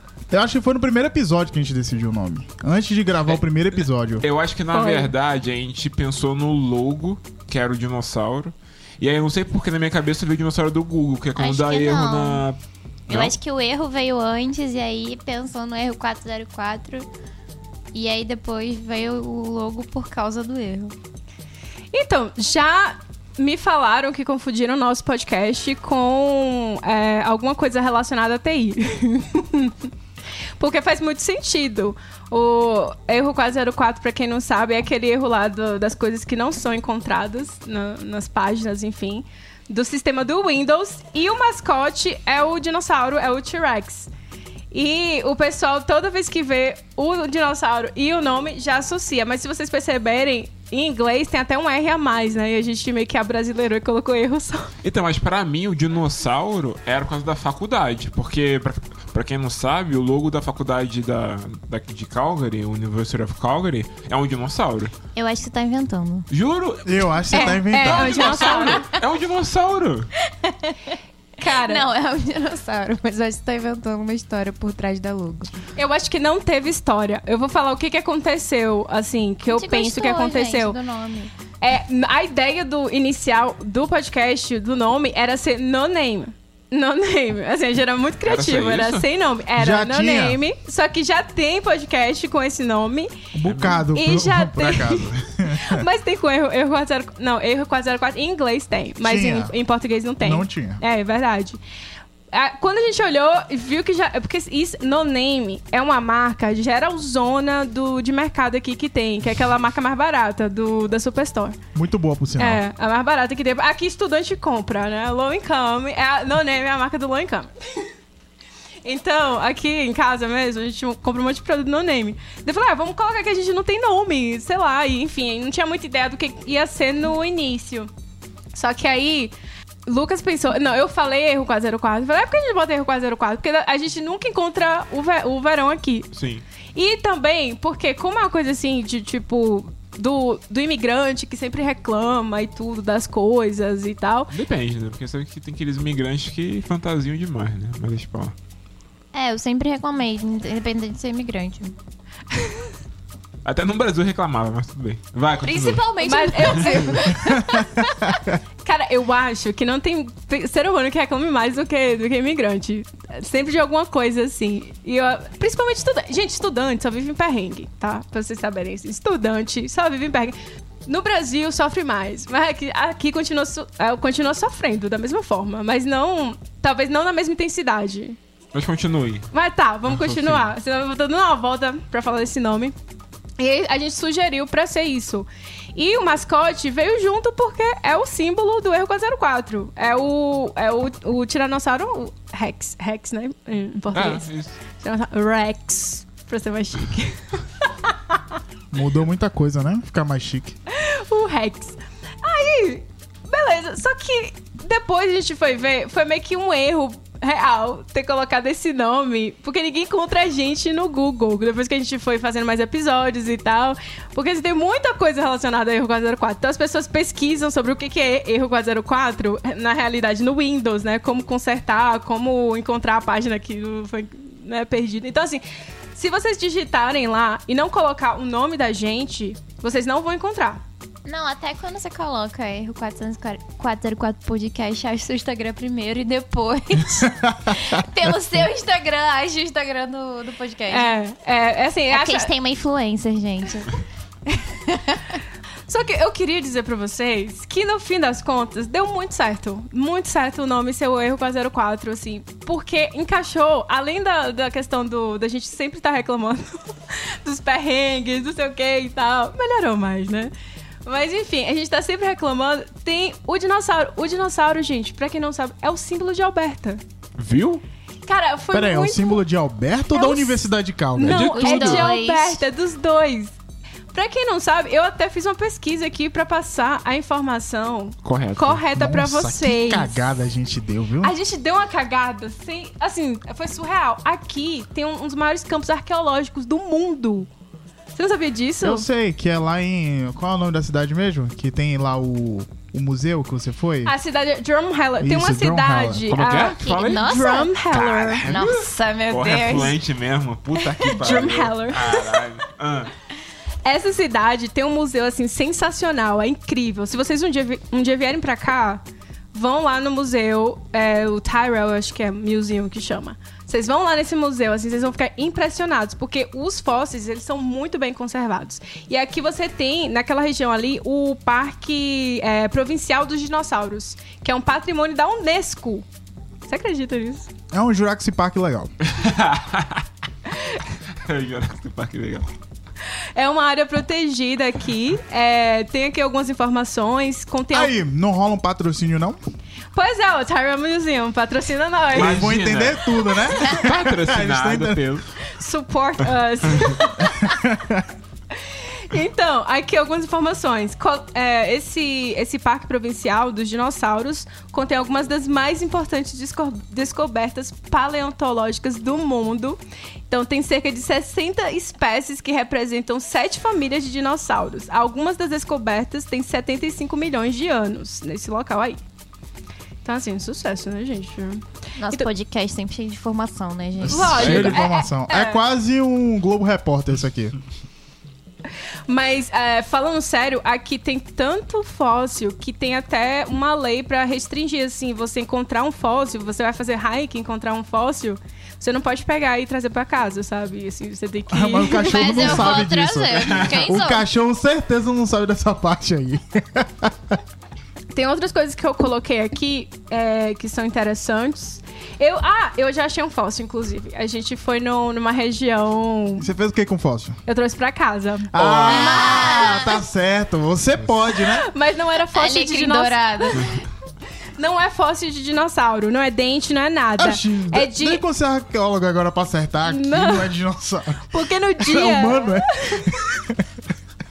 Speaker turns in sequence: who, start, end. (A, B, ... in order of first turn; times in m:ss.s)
0:00.3-0:04.2 A
0:04.2-0:12.6 B
0:04.7-0:05.1 C
0:11.4-0:12.4 D
0:13.1-0:13.4 B
0:13.1-0:17.1 D
0:17.9-0:21.0 D
0:21.9-0:29.9 C
0:30.6-0:44.1 C
0:44.7-0:54.7 C
0:54.8-1:04.9 B
1:05.2-1:06.3 D
1:06.3-1:10.1 B
1:06.8-1:08.4 A
1:07.3-1:08.9 C
1:08.3-1:08.9 D
1:10.2-1:15.5 D
1:11.4-1:11.9 C
1:15.8-1:20.8 C
1:19.5-1:21.3 D
1:21.6-1:33.1 C
1:28.3-1:29.1 B
1:29.6-1:30.4 A
1:33.4-1:35.8 A
1:33.4-1:33.9 B
1:33.9-1:41.6 C
1:39.0-1:39.6 A
1:40.2-1:40.8 A
1:42.3-1:51.6 C
1:51.7-1:52.6 A
1:52.4-1:57.8 C
1:58.8-2:07.9 C
2:08.5-2:09.3 C
2:09.9-2:16.1 C
2:16.1-2:16.4 B
2:16.8-2:24.3 C
2:24.3-2:28.3 B
2:29.1-2:31.8 D
2:32.3-2:32.7 C
2:33.4-2:35.9 B
2:35.4-2:37.8 D
2:36.0-2:37.8 C
2:38.6-2:58.2 C
2:58.5-2:59.3 B
2:59.3-3:02.8 C
2:59.9-3:00.5 B
3:03.4-3:14.3 C
3:13.9-3:14.6 B
3:14.8-3:18.2 C
3:18.7-3:20.6 A
3:20.7-3:50.6 C
3:51.1-4:00.9 D
3:57.1-3:57.5 A
4:00.7-4:02.3 C
4:01.9-4:03.8 D
4:04.4-4:05.2 D
4:05.7-4:20.3 C
4:20.8-4:26.8 C
4:27.2-4:27.6 B
4:28.1-4:29.2 C
4:28.5-4:31.3 A
4:29.9-4:30.4 C
4:31.0-4:33.3 C
4:31.1-4:31.9 B
4:31.3-4:32.4 D
4:33.9-4:40.0 C
4:38.0-4:38.6 B
4:38.7-4:41.2 A
4:41.0-4:47.3 C
4:47.9-4:48.9 C
4:48.6-4:53.9 A
4:53.8-4:58.3 C
4:55.0-4:56.1 A
4:56.1-4:57.1 B
4:56.7-4:57.6 D
4:57.7-5:02.9 B
4:58.2-4:59.8 D
5:00.8-5:02.1 C
5:03.6-5:25.9 C
5:26.5-5:27.3 C
5:27.5-5:28.7 A
5:28.8-5:29.8 B
5:31.0-5:32.3 B
5:33.2-5:37.7 C
5:37.5-5:39.2 A
5:39.7-5:42.3 C
5:41.9-5:44.8 A
5:41.9-5:45.0 B
5:45.3-5:47.3 C
5:47.0-5:47.9 A
5:48.4-5:59.6 C
6:00.1-6:08.8 C
6:09.8-6:12.1 C
6:11.8-6:14.4 D
6:13.9-6:17.3 A
6:13.9-6:15.5 C
6:14.0-6:14.6 B
6:18.9-6:32.6 C
6:31.3-6:37.2 A
6:31.7-6:34.0 D
6:33.2-6:33.8 B
6:37.9-6:46.3 C
6:46.2-6:47.2 A
6:47.3-6:49.5 C
6:48.3-6:51.5 A
6:48.4-6:49.0 B
6:48.6-6:49.8 D
6:51.1-6:53.5 C
6:52.1-6:53.6 D
6:54.4-6:58.0 C
6:57.0-7:01.1 A
6:59.7-7:00.4 C
7:01.1-7:03.0 C
7:01.6-7:03.5 A